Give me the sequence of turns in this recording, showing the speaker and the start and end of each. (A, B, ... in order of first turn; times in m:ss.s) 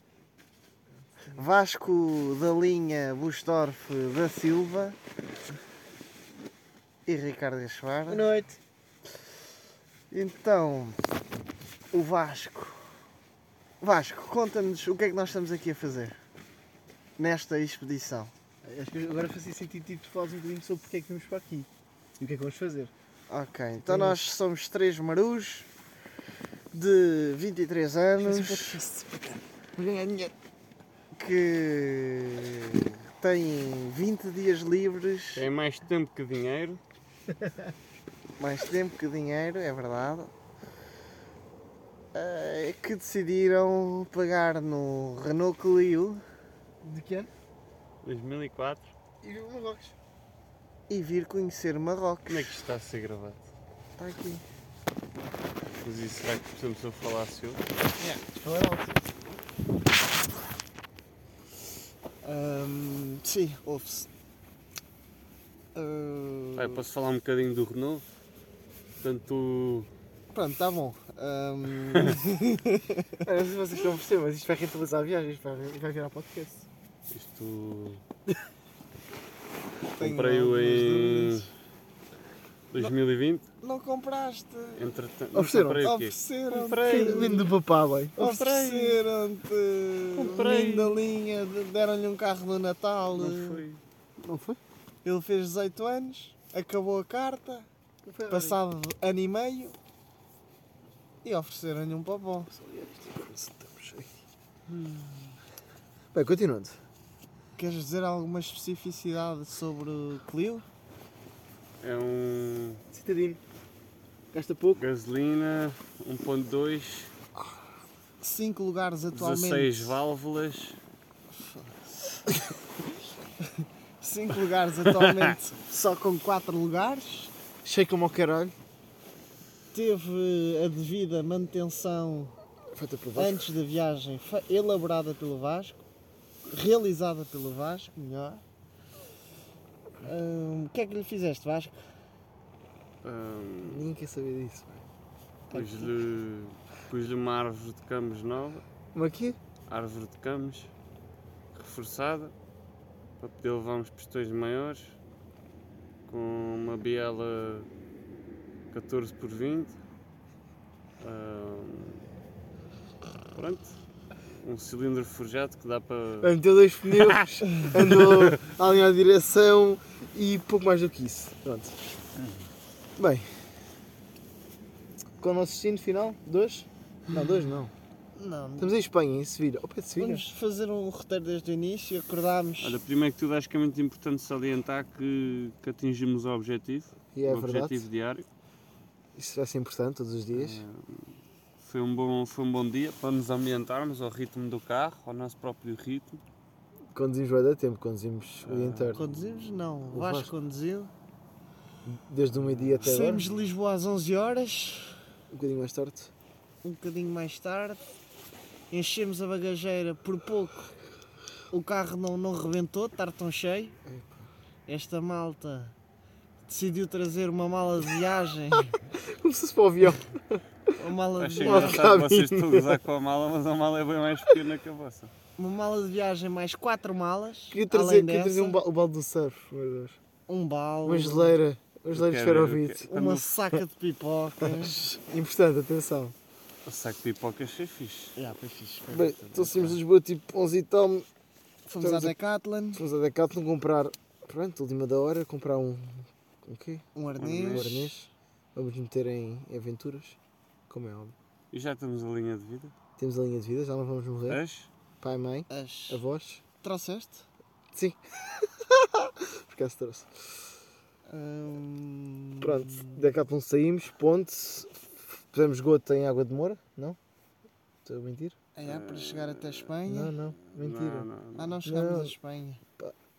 0:01.3-0:05.0 A
0:07.0-0:08.3 A
0:08.1-0:08.6 B
0:10.1-0:11.0 A
0:11.9-0:12.8 A
0:13.8-0:16.2 A
0:17.2-0:18.3 A
0:18.6-0:22.9 B
0:23.3-0:25.7 A
0:23.8-0:24.4 B
0:26.7-0:28.8 A
0:28.2-0:30.3 B
0:31.1-0:35.5 A
0:35.3-0:36.8 C
0:38.4-0:40.3 A
0:42.1-0:46.2 A
0:46.8-0:47.3 B
0:48.0-0:48.9 C
0:49.2-0:50.0 B
0:50.9-0:52.6 A
0:52.3-0:53.4 C
0:54.0-0:54.4 A
0:55.8-0:57.6 C
0:58.0-0:59.0 B
1:02.2-1:04.1 A
1:05.8-1:06.8 A
1:06.6-1:08.0 C
1:09.0-1:09.9 C
1:10.3-1:13.1 A
1:13.2-1:16.7 B
1:17.1-1:18.0 C
1:20.0-1:21.5 A
1:20.0-1:21.5 C
1:22.7-1:23.4 C
1:23.6-1:24.8 A
1:24.8-1:27.5 C
1:25.3-1:25.8 B
1:25.8-1:27.5 A
1:26.9-1:28.4 B
1:28.2-1:29.0 C
1:28.2-1:33.6 A
1:30.2-1:31.0 C
1:33.1-1:33.8 C
1:34.2-1:34.6 B
1:35.0-1:37.7 A
1:38.0-1:38.6 B
1:38.3-1:39.8 A
1:41.2-1:42.5 A
1:42.5-1:44.2 B
1:44.7-1:45.3 C
1:46.1-1:46.8 B
1:47.6-1:50.6 A
1:51.8-1:52.8 C
1:52.9-1:53.4 B
1:54.3-1:54.8 B
1:54.7-1:57.1 C
1:58.2-2:00.0 A
1:59.1-2:00.8 C
2:01.3-2:02.4 A
2:03.4-2:07.3 A
2:04.8-2:05.4 C
2:07.6-2:08.5 B
2:09.7-2:12.3 A
2:12.7-2:13.5 B
2:13.2-2:15.8 A
2:16.5-2:18.4 A
2:20.0-2:21.8 A
2:23.0-2:23.9 C
2:23.6-2:24.8 B
2:25.5-2:28.6 C
2:25.5-2:25.9 B
2:28.9-2:29.4 B
2:29.7-2:30.7 C
2:31.5-2:32.3 C
2:33.2-2:35.0 C
2:36.1-2:37.7 C
2:38.7-2:39.8 C
2:41.0-2:42.0 C
2:43.3-2:43.8 C
2:44.4-2:46.4 C
2:46.2-2:51.8 B
2:46.9-2:48.4 C
2:53.0-2:53.4 B
2:55.2-2:57.7 B
2:58.1-2:58.8 A
2:58.6-3:00.3 B
3:00.0-3:02.8 A
3:02.6-3:08.3 C
3:07.1-3:07.8 B
3:09.2-3:10.6 B
3:10.3-3:16.2 C
3:16.9-3:19.1 B
3:18.4-3:19.6 C
3:18.9-3:20.9 A
3:19.9-3:20.3 B
3:21.8-3:23.2 B
3:22.4-3:23.2 C
3:22.8-3:25.0 A
3:25.3-3:26.1 B
3:26.6-3:27.8 A
3:28.7-3:30.7 A
3:31.5-3:33.8 A
3:33.8-3:34.3 B
3:34.7-3:35.8 A
3:36.4-3:38.8 A
3:39.0-3:40.4 B
3:40.7-3:41.9 A
3:41.2-3:45.1 C
3:41.4-3:42.7 B
3:45.4-3:48.6 A
3:47.5-3:50.0 B
3:50.3-3:51.4 A
3:50.8-3:53.6 B
3:51.9-3:53.2 C
3:52.9-3:55.0 A
3:54.4-3:56.1 B
3:56.6-3:58.1 C
3:58.2-3:59.8 A
3:58.9-4:01.0 B
4:01.7-4:02.8 A
4:01.8-4:02.2 B
4:02.7-4:06.8 B
4:06.9-4:07.7 A
4:07.2-4:07.9 C
4:07.4-4:10.2 B
4:10.7-4:11.1 B
4:11.5-4:12.7 C
4:13.0-4:14.4 B
4:14.3-4:14.7 C
4:15.0-4:16.4 B
4:15.5-4:16.0 A
4:16.6-4:17.3 A
4:17.7-4:20.1 B
4:21.1-4:23.2 A
4:22.4-4:27.0 B
4:27.8-4:28.4 B
4:28.6-4:30.1 A
4:28.6-4:29.8 C
4:29.9-4:31.1 B
4:30.4-4:31.6 C
4:31.4-4:32.6 A
4:31.6-4:32.1 B